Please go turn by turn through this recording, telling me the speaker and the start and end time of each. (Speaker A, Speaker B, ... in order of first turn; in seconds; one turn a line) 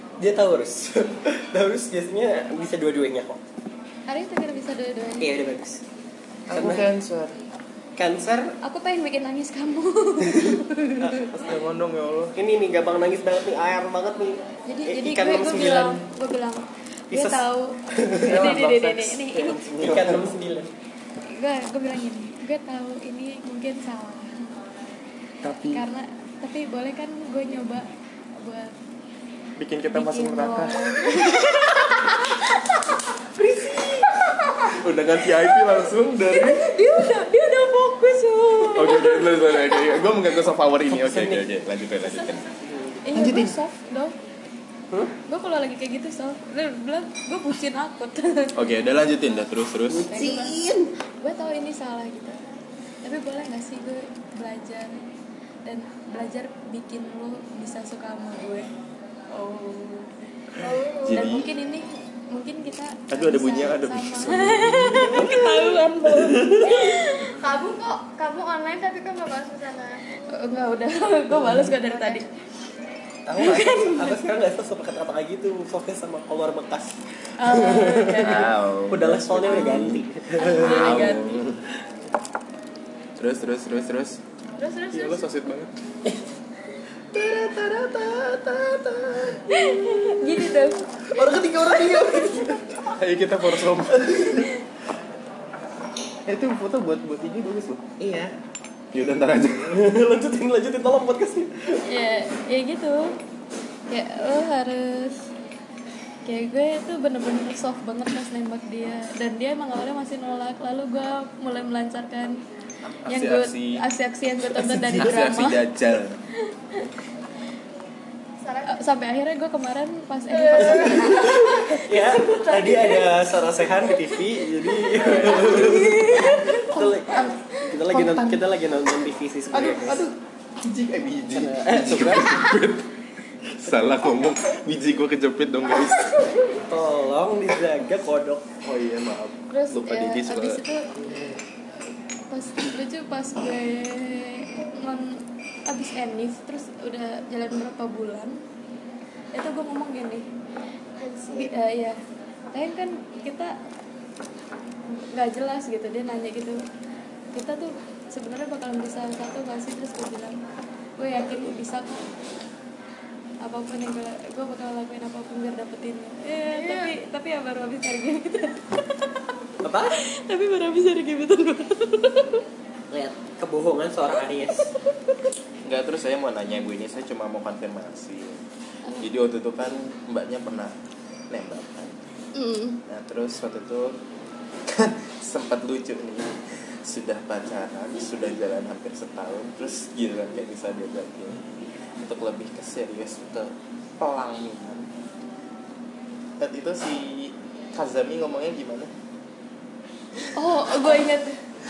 Speaker A: 0.2-3.4
Speaker B: 4.1-5.3
Speaker A: 5.2-5.8
Speaker C: 6.5-7.4
Speaker A: 6.5-6.9
Speaker A: 8.0-8.6
Speaker B: 8.6-11.3
Speaker A: 11.0-11.3
Speaker C: 11.3-12.4
Speaker A: 12.4-16.1
Speaker B: 14.7-19.6
Speaker A: 17.1-18.6
Speaker C: 18.2-20.3
Speaker A: 19.4-20.7
Speaker B: 21.3-24.5
Speaker C: 25.4-25.8
Speaker B: 25.7-28.8
Speaker C: 29.6-31.0
Speaker B: 29.9-32.5
Speaker A: 33.4-34.1
Speaker C: 34.7-36.7
Speaker B: 35.5-40.0
Speaker C: 38.7-42.5
Speaker A: 40.9-41.5
Speaker A: 42.3-43.0
Speaker B: 43.0-44.2
Speaker C: 43.1-43.5
Speaker B: 45.3-48.6
Speaker C: 48.5-50.2
Speaker A: 49.9-50.9
Speaker B: 50.1-50.6
Speaker B: 51.2-52.4
Speaker B: 53.0-55.0
Speaker B: 55.7-58.7
Speaker B: 59.3-60.1
Speaker D: 60.6-61.5
Speaker C: 61.0-61.5
Speaker B: 61.1-67.4
Speaker C: 63.1-65.4
Speaker A: 64.8-66.8
Speaker D: 66.7-70.3
Speaker B: 70.3-72.2
Speaker D: 71.7-72.3
Speaker A: 73.3-81.3
Speaker B: 73.4-74.2
Speaker B: 77.4-78.5
Speaker C: 78.2-80.0
Speaker B: 79.5-81.4
Speaker C: 80.6-81.6
Speaker C: 83.2-84.2
Speaker B: 84.6-85.2
Speaker C: 84.9-85.7
Speaker A: 87.1-89.5
Speaker B: 89.5-90.9
Speaker A: 91.1-92.8
Speaker C: 92.8-94.3
Speaker A: 93.9-94.5
Speaker C: 96.3-97.8
Speaker A: 98.0-98.3
Speaker C: 98.9-99.8
Speaker A: 99.7-101.8
Speaker B: 101.8-103.2
Speaker B: 103.9-105.3
Speaker B: 106.2-112.4
Speaker C: 112.9-113.8
Speaker B: 113.1-115.6
Speaker C: 114.5-116.2
Speaker A: 114.8-115.1
Speaker D: 118.4-118.9
Speaker B: 118.7-124.2
Speaker D: 120.3-121.4
Speaker A: 120.6-130.0
Speaker B: 124.9-127.3
Speaker C: 125.0-126.2
Speaker C: 127.8-128.4
Speaker C: 129.5-132.9
Speaker A: 131.3-132.6
Speaker C: 133.6-136.2
Speaker A: 136.7-138.5
Speaker C: 138.6-140.6
Speaker B: 139.5-140.9
Speaker B: 142.3-148.4
Speaker B: 149.3-150.3
Speaker D: 151.0-151.6
Speaker B: 151.3-152.0
Speaker B: 152.5-153.6
Speaker B: 154.9-156.7
Speaker B: 157.3-160.4
Speaker B: 161.0-162.1
Speaker B: 163.4-169.4
Speaker D: 166.5-166.9
Speaker A: 169.6-170.0
Speaker B: 169.9-172.4
Speaker A: 172.9-174.7
Speaker C: 175.7-178.4
Speaker C: 178.9-180.8
Speaker C: 181.3-182.0
Speaker B: 182.3-182.8
Speaker C: 182.9-184.0
Speaker C: 184.7-194.9
Speaker C: 196.4-198.9
Speaker B: 200.2-201.4
Speaker C: 200.7-201.0